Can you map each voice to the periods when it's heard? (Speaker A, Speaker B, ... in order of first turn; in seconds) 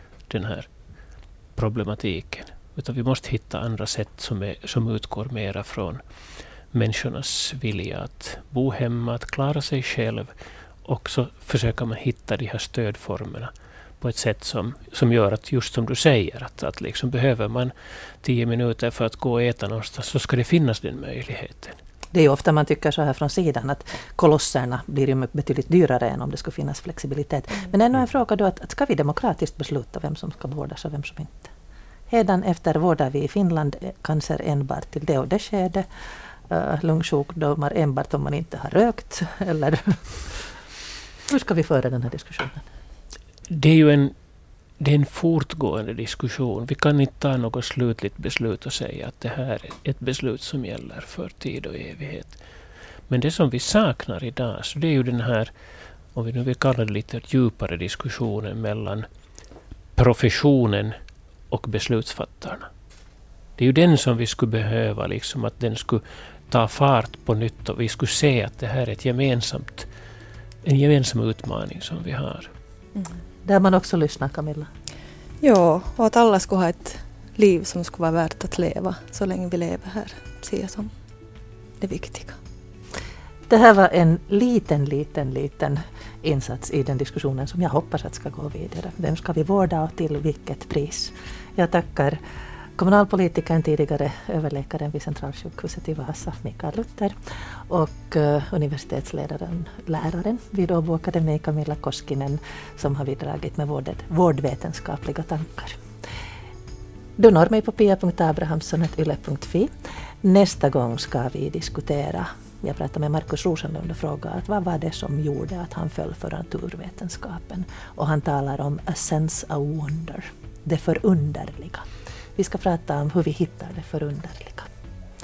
Speaker A: 0.3-0.7, 1.6-6.0, 6.7-10.3, 10.8-21.8, 43.5-44.1, 44.8-52.4, 53.1-55.5, 56.1-59.1, 60.0-61.0, 61.5-62.7, 63.6-69.9, 70.6-72.5
Speaker B: 22.1-31.5, 32.1-35.9, 36.5-40.4, 41.3-42.6, 73.5-74.7, 83.5-92.2, 92.8-105.8, 107.2-109.7, 110.2-124.7
Speaker C: 75.4-80.9, 81.8-82.4